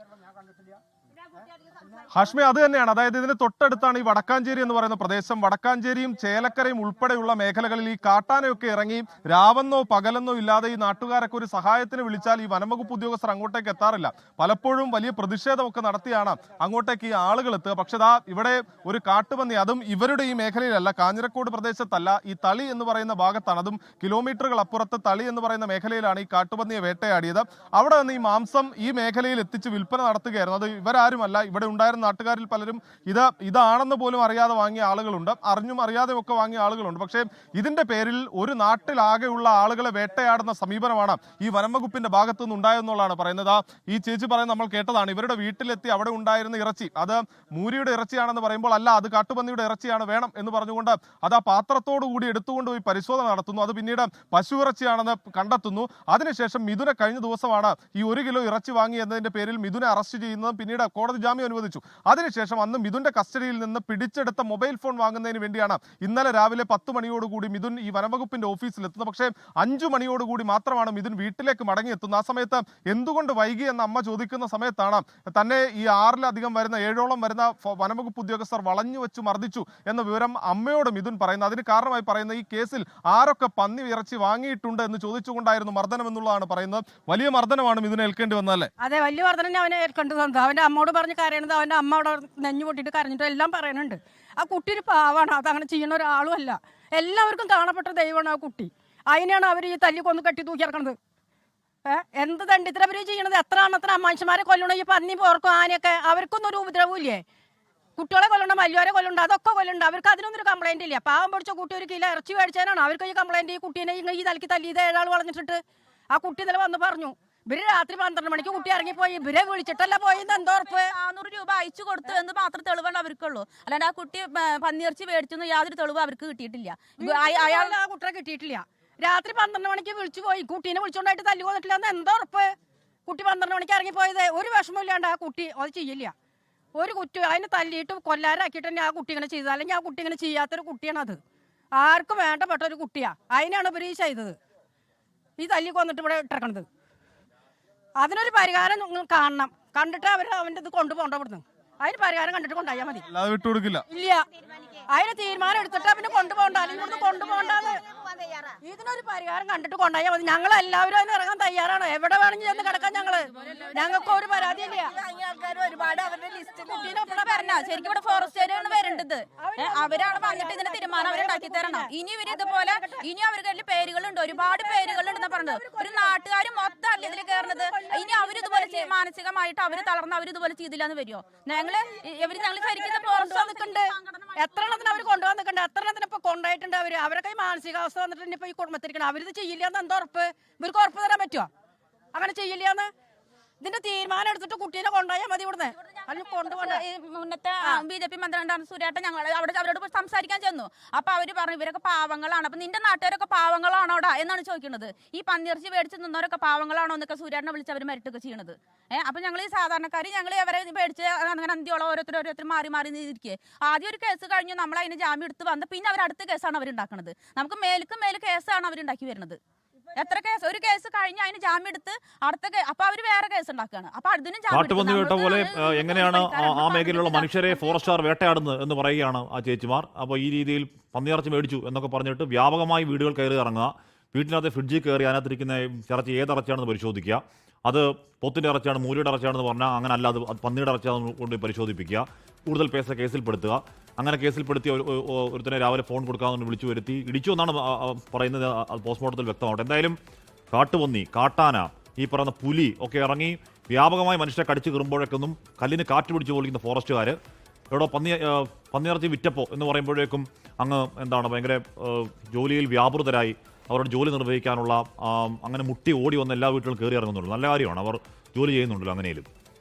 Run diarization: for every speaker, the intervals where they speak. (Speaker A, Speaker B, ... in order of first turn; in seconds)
Speaker A: 2.1-88.7, 153.1-153.8
Speaker B: 88.8-101.0, 101.8-107.2, 108.0-120.9, 127.0-132.5, 133.1-136.1, 136.8-141.2, 141.8-144.4, 145.4-146.7, 148.0-153.1, 153.9-154.2, 154.9-157.8, 158.6-165.0, 165.6-173.1, 174.3-176.1, 177.0-178.9, 181.6-191.5, 192.1-192.9, 193.6-196.8
Speaker C: 120.7-127.8, 166.7-185.1, 196.1-219.4, 220.0-227.7
Speaker D: 224.5-250.0, 250.5-257.2, 257.7-269.3